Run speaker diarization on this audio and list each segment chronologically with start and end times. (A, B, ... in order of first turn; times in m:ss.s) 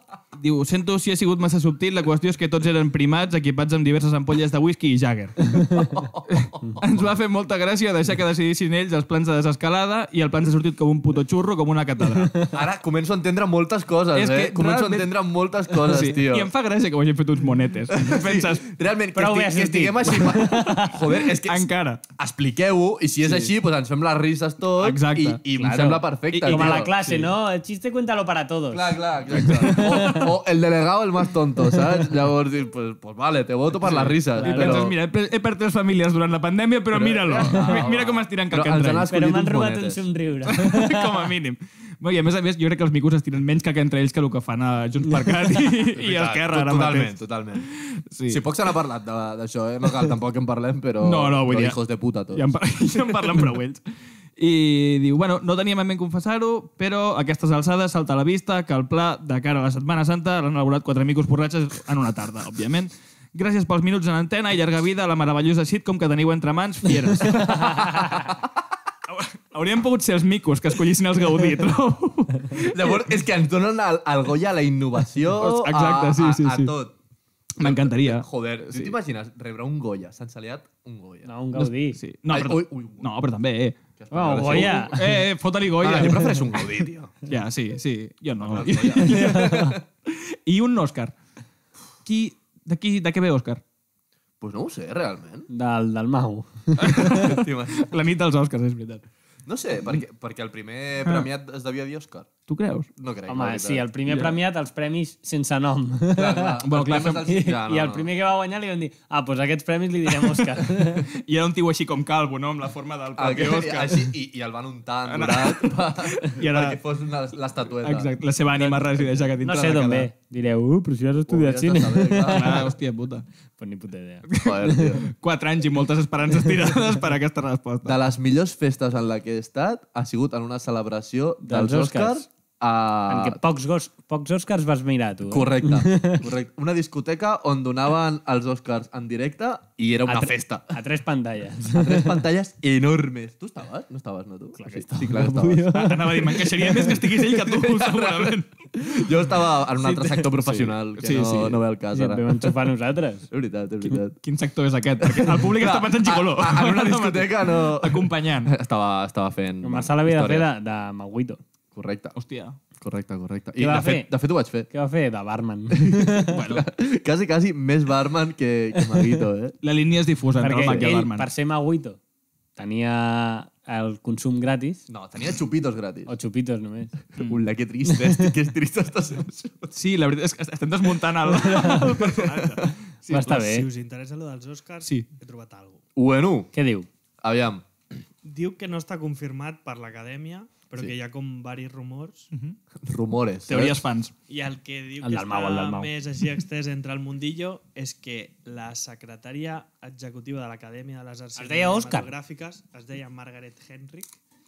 0:00.3-0:05.7 A
0:05.8-0:06.7 B
0:06.3-0:12.5 A
0:12.5-0:16.5 B
0:14.1-0:15.1 A
0:15.7-0:18.7 A
0:17.9-0:26.9 B
0:19.1-0:21.0 C
0:20.2-0:22.0 A
0:23.2-0:23.5 A
0:24.8-0:25.4 A
0:25.5-0:30.3 C
0:26.3-0:27.3 A
0:28.7-0:35.0 B
0:29.4-0:30.2 A
0:33.8-0:39.1 A
0:34.4-0:34.9 C
0:36.9-0:40.0 B
0:37.5-0:37.8 C
0:39.1-0:41.2 C
0:40.5-0:48.4 A
0:45.9-0:47.7 B
0:48.3-0:52.5 B
0:51.0-0:51.8 A
0:52.3-0:53.8 A
0:54.4-1:08.3 A
1:09.1-1:13.0 A
1:12.5-1:16.9 B
1:15.4-1:16.7 A
1:17.6-1:18.9 A
1:17.6-1:21.3 B
1:21.2-1:22.0 C
1:21.6-1:23.8 A
1:22.3-1:23.1 B
1:24.0-1:24.9 B
1:24.1-1:25.2 C
1:24.4-1:26.6 A
1:25.8-1:27.2 B
1:27.2-1:31.1 A
1:28.4-1:29.8 B
1:29.0-1:29.8 C
1:32.0-1:33.6 A
1:34.4-1:35.5 B
1:35.5-1:37.2 C
1:36.8-1:39.0 A
1:37.0-1:37.9 B
1:39.4-1:42.3 B
1:42.5-1:42.9 A
1:43.0-1:43.8 B
1:43.3-1:51.1 C
1:44.1-1:44.4 A
1:46.1-1:48.1 B
1:46.6-1:47.3 A
1:51.1-1:54.1 A
1:53.2-1:59.1 B
1:55.1-1:56.8 A
1:57.8-2:00.1 A
1:59.4-2:02.6 C
2:01.3-2:02.6 B
2:02.3-2:03.2 A
2:03.6-2:04.8 C
2:04.3-2:08.0 A
2:04.4-2:05.1 B
2:07.8-2:13.4 B
2:11.4-2:12.2 C
2:13.1-2:16.2 C
2:15.3-2:20.8 B
2:20.0-2:22.2 C
2:21.7-2:25.9 B
2:24.6-2:26.9 C
2:25.7-2:28.6 A
2:27.0-2:32.7 B
2:29.8-2:31.6 A
2:31.9-2:33.3 C
2:33.3-2:34.2 B
2:34.2-2:38.5 A
2:35.0-2:40.5 B
2:39.6-2:41.4 C
2:41.7-2:42.2 B
2:42.2-2:42.6 A
2:42.8-2:44.7 B
2:43.6-2:44.1 C
2:44.7-2:46.4 C
2:45.7-2:49.6 B
2:46.3-2:46.7 A
2:49.6-2:51.3 A
2:50.4-2:52.0 C
2:50.6-2:50.9 B
2:52.6-2:54.8 C
2:54.9-2:56.1 B
2:56.1-2:56.9 C
2:57.2-2:57.4 A
2:57.2-2:59.7 B
2:57.9-2:58.3 C
2:59.7-3:03.5 A
3:01.5-3:01.8 C
3:01.5-3:02.7 B
3:03.1-3:03.7 C
3:03.2-3:05.8 D
3:06.0-3:06.5 B
3:06.5-3:06.9 C
3:07.2-3:07.6 B
3:08.2-3:12.3 D
3:12.8-3:13.8 B
3:13.5-3:14.1 A
3:14.3-3:24.2 D
3:15.0-3:15.9 C
3:21.4-3:22.1 C